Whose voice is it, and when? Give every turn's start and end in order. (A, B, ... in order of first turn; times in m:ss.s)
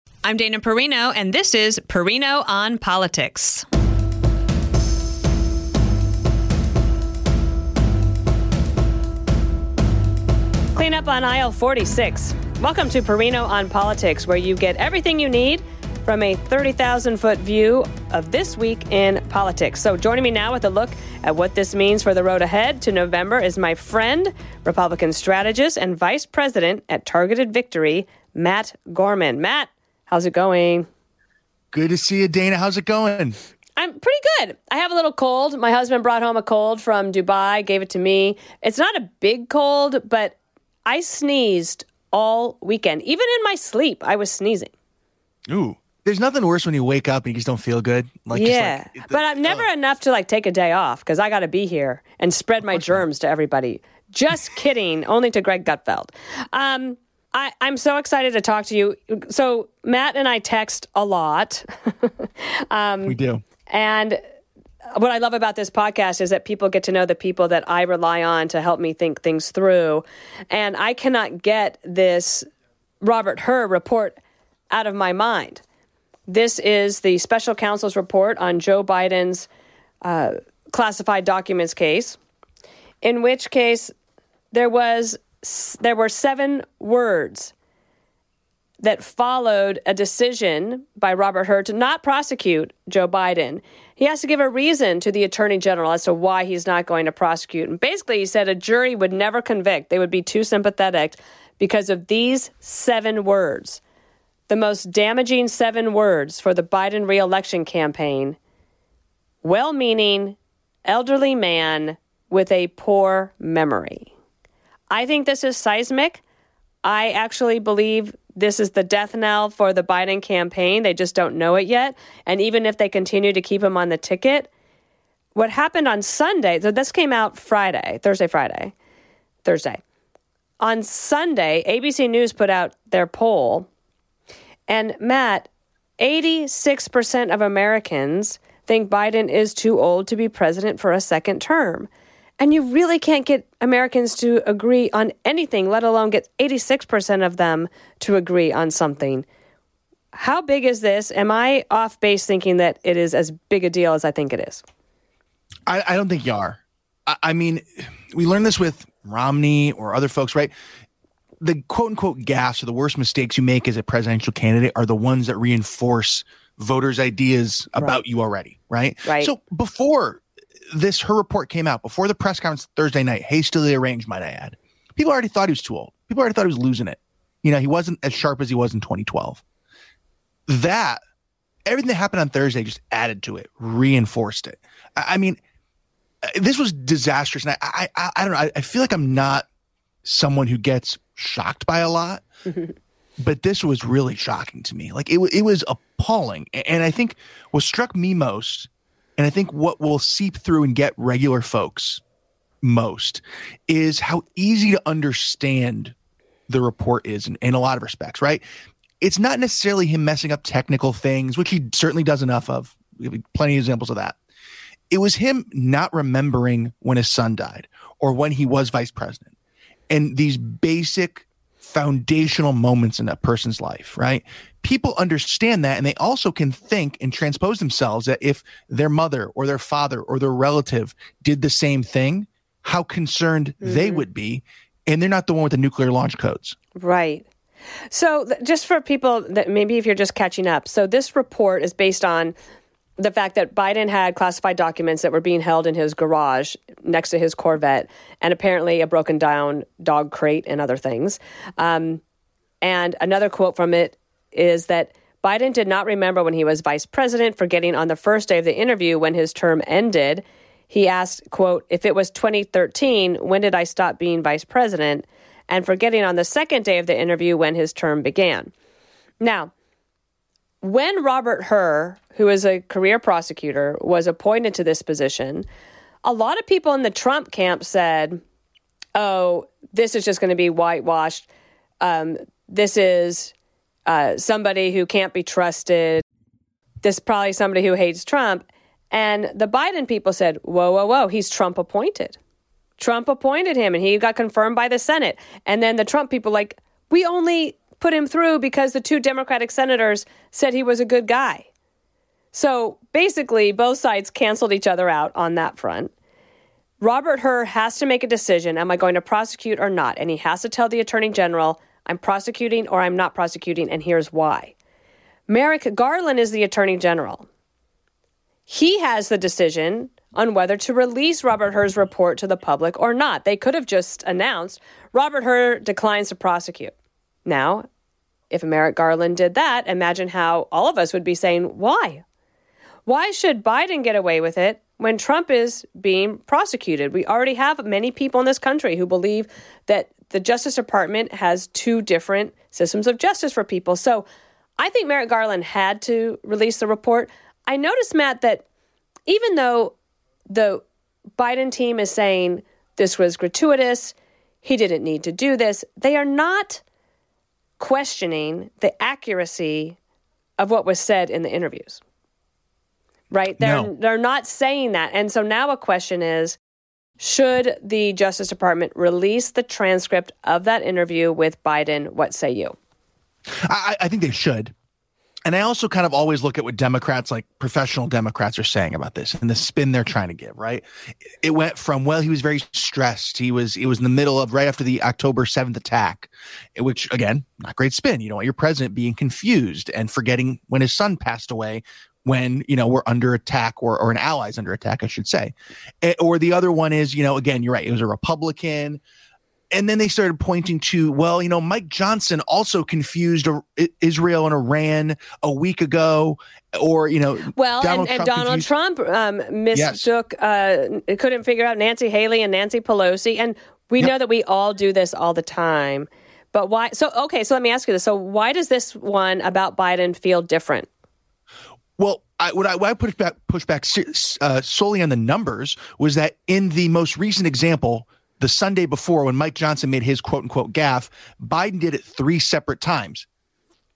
0:00.2-0:03.6 A
0:10.8-0:30.9 A
0:31.7-0:33.4 B
0:33.8-0:44.7 A
0:45.5-0:49.6 B
0:48.3-1:03.2 A
0:52.7-0:53.0 B
1:03.0-1:03.4 B
1:03.7-1:04.2 A
1:05.0-1:12.5 A
1:13.0-1:14.2 A
1:14.7-1:15.6 A
1:16.3-1:19.5 A
1:20.0-1:22.2 A
1:23.0-1:23.9 A
1:24.5-1:27.5 A
1:28.8-1:43.8 A
1:44.5-1:48.4 A
1:49.4-1:54.1 A
1:54.9-1:56.2 A
1:56.8-2:04.5 A
2:05.4-2:08.7 A
2:09.4-2:09.8 A
2:10.6-2:13.7 A
2:14.7-2:15.5 A
2:16.0-2:21.9 A
2:22.4-2:29.2 A
2:30.1-2:34.6 A
2:35.7-2:40.5 B
2:41.4-2:59.4 B
2:49.0-2:49.3 A
3:00.5-3:01.0 B
3:01.7-3:05.4 B
3:06.2-3:09.5 B
3:10.0-3:12.2 B
3:13.2-3:22.0 B
3:22.6-3:25.9 B
3:26.5-3:28.4 B
3:29.0-3:34.2 B
3:34.9-3:39.3 B
3:39.9-3:56.6 B
3:53.6-3:54.0 A
3:56.8-3:57.2 A
3:57.9-4:02.4 A
4:03.0-4:12.0 A
4:12.6-4:28.5 A
4:29.2-4:29.5 A
4:30.6-4:35.4 A
4:36.0-4:38.2 A
4:39.0-4:41.2 A
4:41.8-4:43.3 A
4:43.9-4:46.0 A
4:46.8-4:52.2 A
4:52.8-5:01.5 A
5:02.3-5:05.9 A
5:06.8-5:14.5 A
5:15.3-5:17.3 A
5:18.5-5:26.7 A
5:27.2-5:27.7 A
5:28.3-5:32.0 A
5:32.8-5:44.1 A
5:44.6-5:48.4 A
5:49.1-5:49.8 A
5:50.3-5:50.6 A
5:51.2-5:56.6 A
5:57.6-5:59.8 A
6:00.4-6:01.8 A
6:03.1-6:06.4 A
6:03.4-6:03.7 B
6:07.0-6:12.6 A
6:13.4-6:14.5 B
6:15.2-6:20.6 B
6:21.2-6:38.8 B
6:39.5-6:48.5 B
6:47.3-7:00.7 A
6:49.5-6:49.9 B
7:01.8-7:13.1 B